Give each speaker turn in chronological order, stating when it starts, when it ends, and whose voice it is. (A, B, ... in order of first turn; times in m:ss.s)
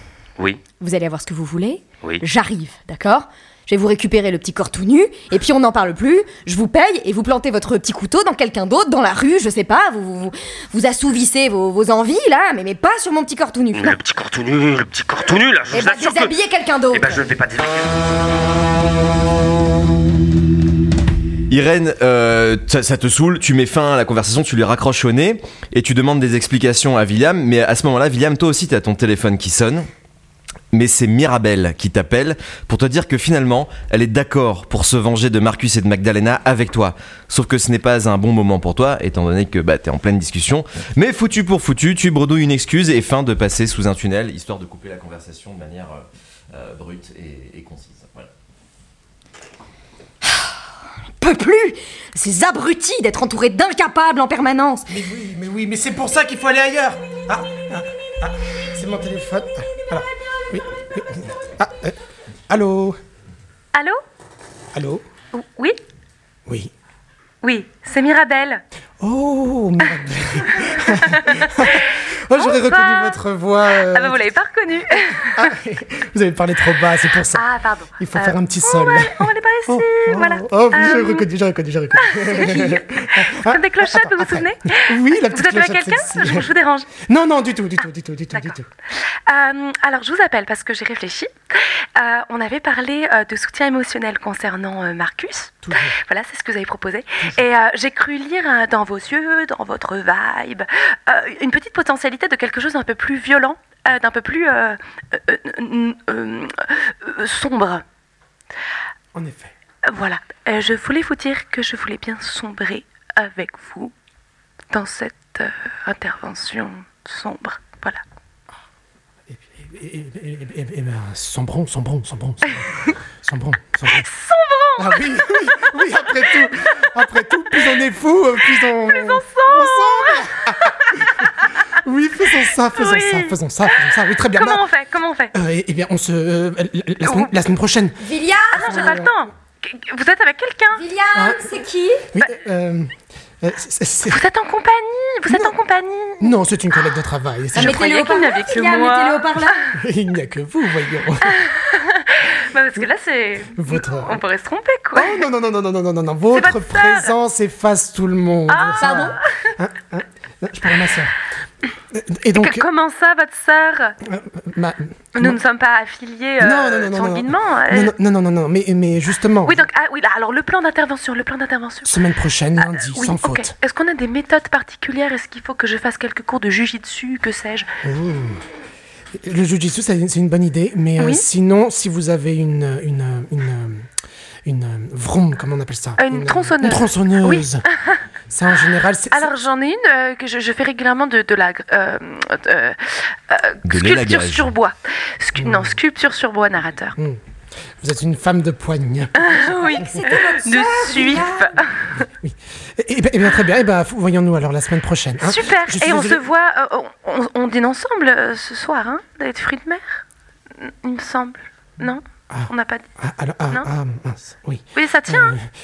0:00.4-0:00.6 A
0:00.8-0:14.0 B
0:13.7-0:16.3 A
0:15.7-0:17.2 B
0:16.9-0:18.0 A
0:21.5-0:29.9 C
0:30.7-0:48.3 C
0:51.2-0:54.9 B
0:54.9-1:02.0 D
1:02.5-1:03.0 D
1:03.7-1:04.0 E
1:04.8-1:05.0 D
1:05.3-1:05.8 E
1:07.4-1:08.6 E
1:09.0-1:14.2 D
1:11.2-1:15.5 E
1:15.3-1:17.4 D
1:17.4-1:21.3 E
1:18.0-1:28.7 D
1:22.0-1:26.9 E
1:29.3-1:31.3 E
1:32.0-1:47.8 E
1:35.6-1:36.0 D
1:49.1-1:49.5 D
1:49.9-1:53.9 E
1:54.7-1:58.0 E
1:59.3-2:04.1 D
2:03.9-2:05.7 E
2:04.8-2:14.7 D
2:08.6-2:10.9 E
2:12.7-2:15.3 E
2:15.3-2:18.0 D
2:17.0-2:17.3 E
2:18.0-2:19.0 B
2:18.5-2:20.8 E
2:18.6-2:19.2 D
2:20.8-2:22.1 B
2:21.2-2:21.4 D
2:22.1-2:24.2 D
2:24.1-2:26.3 E
2:25.3-2:25.6 D
2:26.2-2:27.8 D
2:27.5-2:29.7 B
2:27.6-2:29.6 E
2:29.8-2:31.4 D
2:31.3-2:35.3 E
2:33.5-2:34.2 D
2:35.0-2:41.2 D
2:36.3-2:37.1 E
2:38.5-2:39.3 E
2:38.8-2:39.1 B
2:42.0-2:42.7 D
2:42.4-2:44.0 E
2:44.0-2:45.4 D
2:45.2-2:47.9 E
2:46.4-2:49.7 D
2:49.5-2:52.0 E
2:51.8-2:53.5 D
2:52.6-2:57.7 E
2:57.8-2:58.4 D
2:59.2-3:03.9 D
3:04.5-3:07.6 D
3:06.0-3:07.4 E
3:08.3-3:09.3 D
3:09.1-3:17.0 E
3:13.6-3:14.5 C
3:15.4-3:15.8 D
3:17.8-3:19.4 D
3:19.2-3:21.7 E
3:19.7-3:21.5 B
3:22.2-3:26.2 D
3:25.2-3:30.0 E
3:30.6-3:32.9 E
3:32.3-3:35.4 D
3:34.8-3:35.4 E